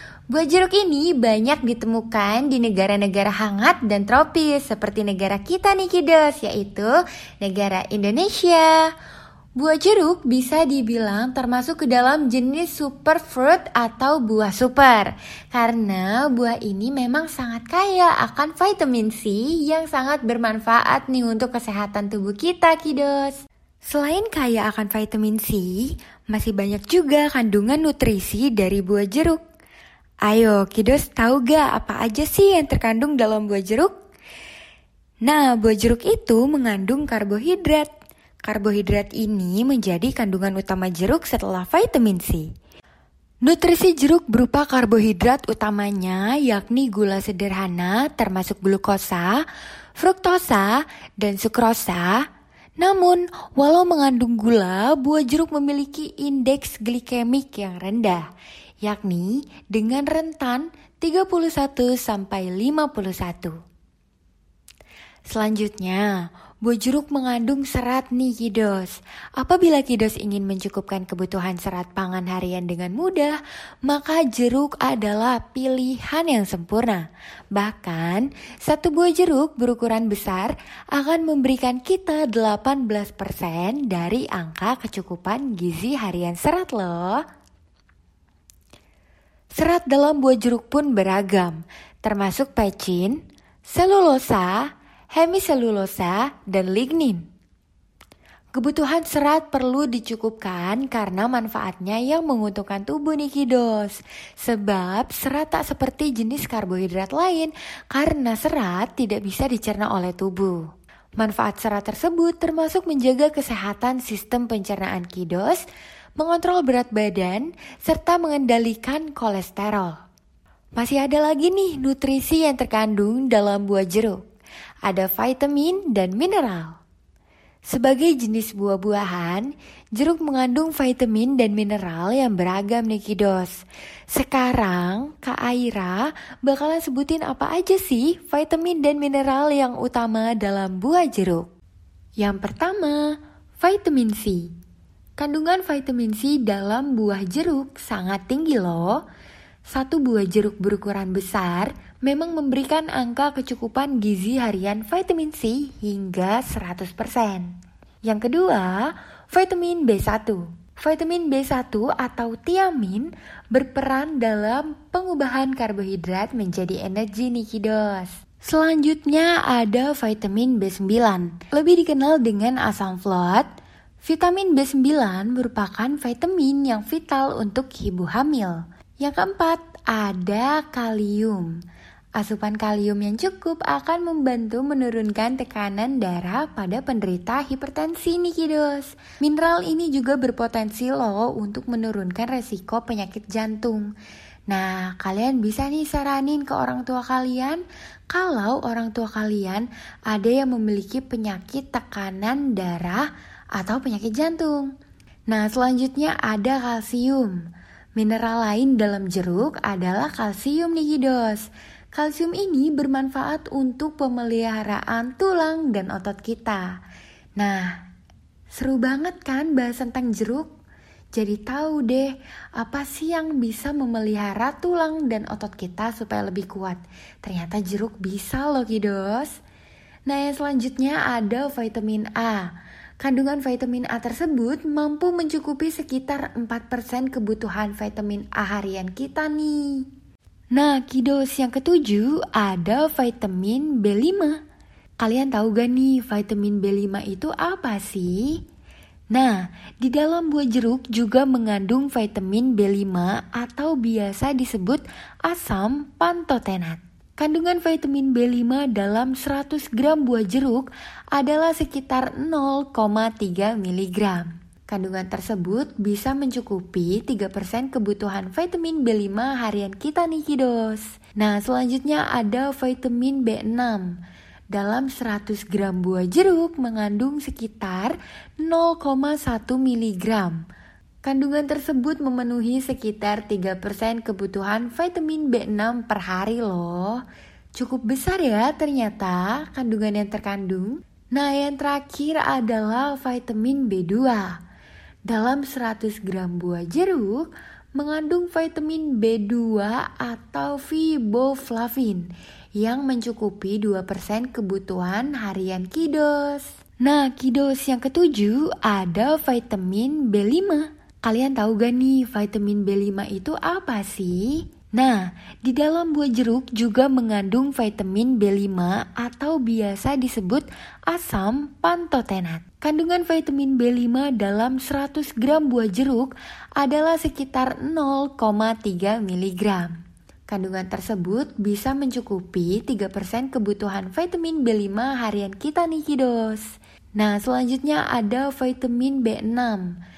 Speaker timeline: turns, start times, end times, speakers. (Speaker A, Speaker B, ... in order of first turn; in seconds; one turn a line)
Speaker A: 0.3-8.8
Speaker A: 9.6-29.4
Speaker A: 30.2-33.9
Speaker A: 35.2-37.9
Speaker A: 38.4-42.5
Speaker A: 43.4-49.4
Speaker A: 50.0-52.2
Speaker A: 52.8-58.2
Speaker A: 58.8-63.6
Speaker A: 65.3-66.1
Speaker A: 66.6-73.3
Speaker A: 73.8-87.2
Speaker A: 89.6-97.2
Speaker A: 98.5-110.7
Speaker A: 111.2-115.6
Speaker A: 116.2-120.0
Speaker A: 120.8-124.2
Speaker A: 124.8-126.7
Speaker A: 127.7-133.5
Speaker A: 134.1-141.5
Speaker A: 142.2-144.5
Speaker A: 145.2-149.0
Speaker A: 149.7-157.5
Speaker A: 158.0-173.4
Speaker A: 174.0-181.5
Speaker A: 182.2-193.9
Speaker A: 194.5-204.7
Speaker A: 205.3-207.4
Speaker A: 208.0-216.7
Speaker A: 217.4-217.8
Speaker A: 218.5-220.5
Speaker A: 221.1-229.4
Speaker A: 230.1-232.5
Speaker A: 233.0-239.8
Speaker A: 240.5-244.4
Speaker A: 245.0-248.4
Speaker A: 249.1-273.9
Speaker A: 274.5-280.4
Speaker A: 281.0-287.0
Speaker A: 287.6-294.3
Speaker A: 295.1-329.8
Speaker A: 330.3-336.4
Speaker A: 336.9-339.7